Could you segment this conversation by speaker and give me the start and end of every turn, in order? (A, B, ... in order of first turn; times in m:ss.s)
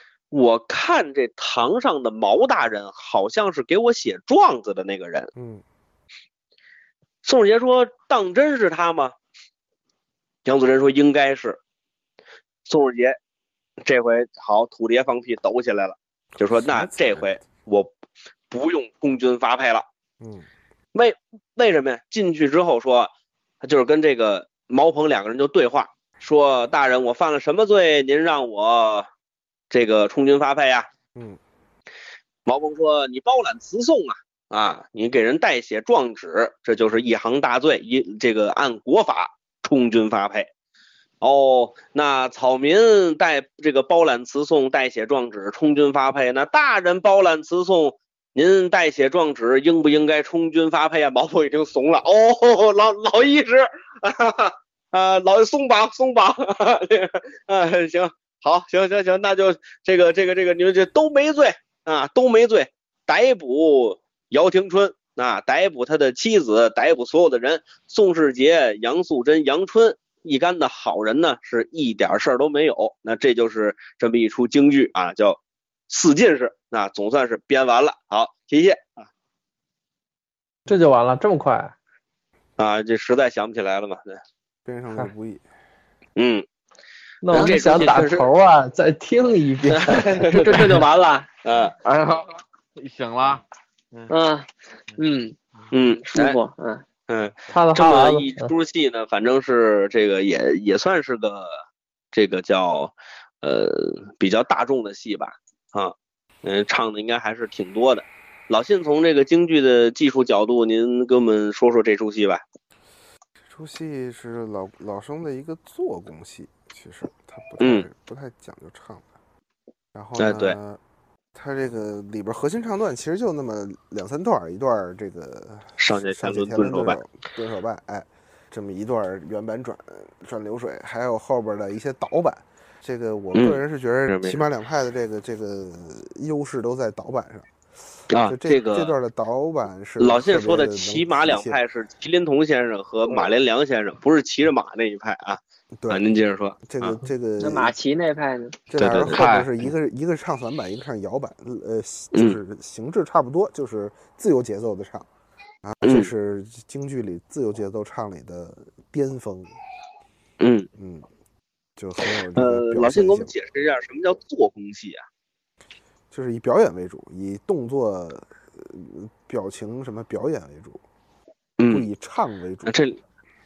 0:00.3-0:05.3 A
0:05.4-0:05.6 B
0:07.2-0:09.1 A
0:10.4-0:11.6 A
0:12.7-0:13.2 A
0:13.8-0:17.9 A
0:16.4-0:17.4 B
0:18.5-0:19.9 A
0:20.2-0:20.5 B
0:20.9-0:29.1 A
0:29.7-0:30.9 A
0:32.5-0:40.5 A
0:41.2-1:19.1 A
1:20.7-1:21.7 C
1:22.6-1:24.2 A
1:24.6-1:25.4 B
1:26.2-1:26.4 A
1:27.2-1:30.4 C
1:27.3-1:28.3 A
1:29.7-1:30.5 A
1:30.3-1:31.3 D
1:31.4-1:31.7 A
1:31.8-1:34.1 E
1:34.1-1:35.4 D
1:35.7-1:36.4 A
1:36.1-1:36.8 D
1:37.1-1:41.6 A
1:37.5-1:38.5 C
1:42.1-1:52.4 A
1:53.4-1:59.1 B
1:57.6-1:57.9 A
1:59.9-2:00.8 B
2:00.2-2:00.6 A
2:01.4-2:17.5 B
2:05.8-2:07.0 A
2:13.3-2:14.4 A
2:18.1-2:18.9 A
2:18.1-2:21.6 B
2:20.0-2:27.0 A
2:25.8-2:26.1 B
2:26.6-2:27.7 B
2:27.4-2:28.6 D
2:28.7-2:35.1 B
2:28.8-2:29.2 A
2:28.8-2:29.5 E
2:35.6-2:39.5 B
2:35.8-2:36.1 A
2:40.4-2:40.7 A
2:40.8-2:41.1 B
2:41.8-2:43.3 B
2:42.4-2:45.0 A
2:46.1-2:50.8 B
2:51.6-2:51.9 A
2:51.7-2:52.8 B
2:52.7-2:53.0 A